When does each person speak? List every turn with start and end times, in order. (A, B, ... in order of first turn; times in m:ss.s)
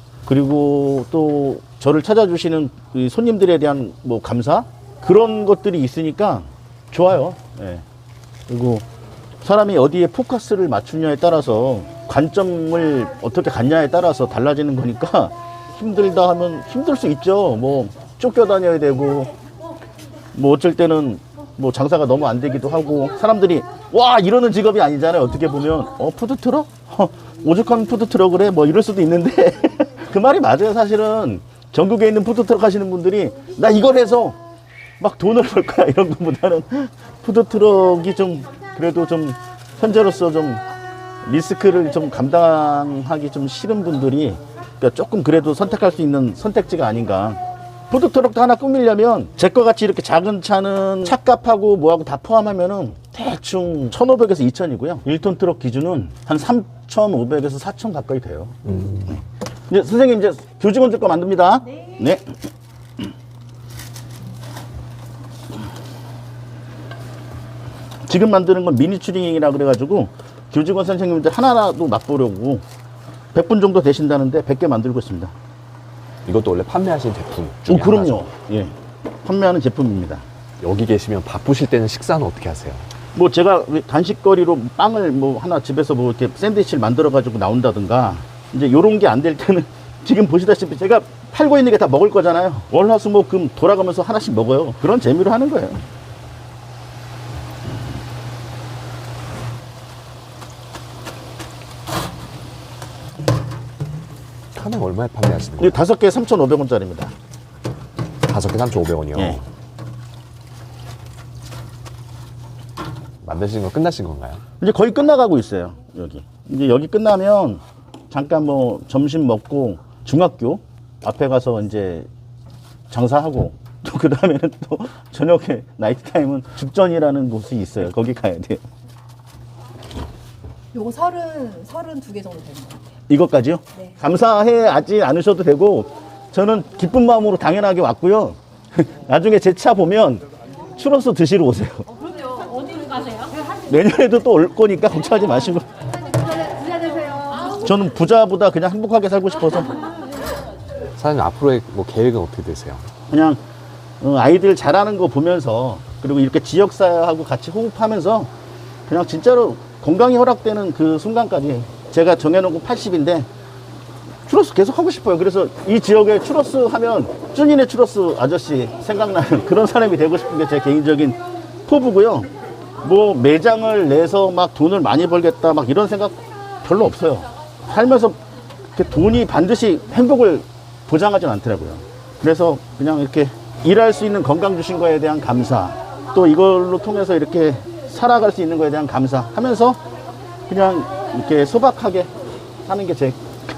0:00.2-0:07.8 A
0:08.5-0:08.8 A
0:09.4-0:19.3 A
0:20.3-0:34.4 A
0:35.0-0:40.6 A
0:41.2-0:47.4 A
0:47.9-0:58.6 A
0:59.7-1:02.3 A
1:08.0-1:12.6 A
1:13.3-1:15.3 A
1:16.2-1:18.2 B
1:17.7-1:20.2 A
1:20.6-1:22.8 B
1:23.1-1:35.8 A
1:44.5-1:45.8 B
1:45.6-1:47.1 A
1:48.2-1:49.4 B
1:53.2-1:54.4 B
1:54.6-2:02.1 A
2:02.9-2:08.6 A
2:10.7-2:12.8 C
2:13.1-2:21.9 A
2:22.1-2:23.4 C
2:23.6-2:25.6 A
2:26.1-2:27.5 C
2:27.4-2:29.9 A
2:31.0-2:32.8 B
2:33.1-2:33.4 A
2:34.0-2:38.3 A
2:38.9-2:43.3 A
2:44.3-2:52.3 A
2:52.8-2:58.2 A
2:58.7-3:09.8 A
3:10.5-3:12.1 A
3:12.7-3:13.2 A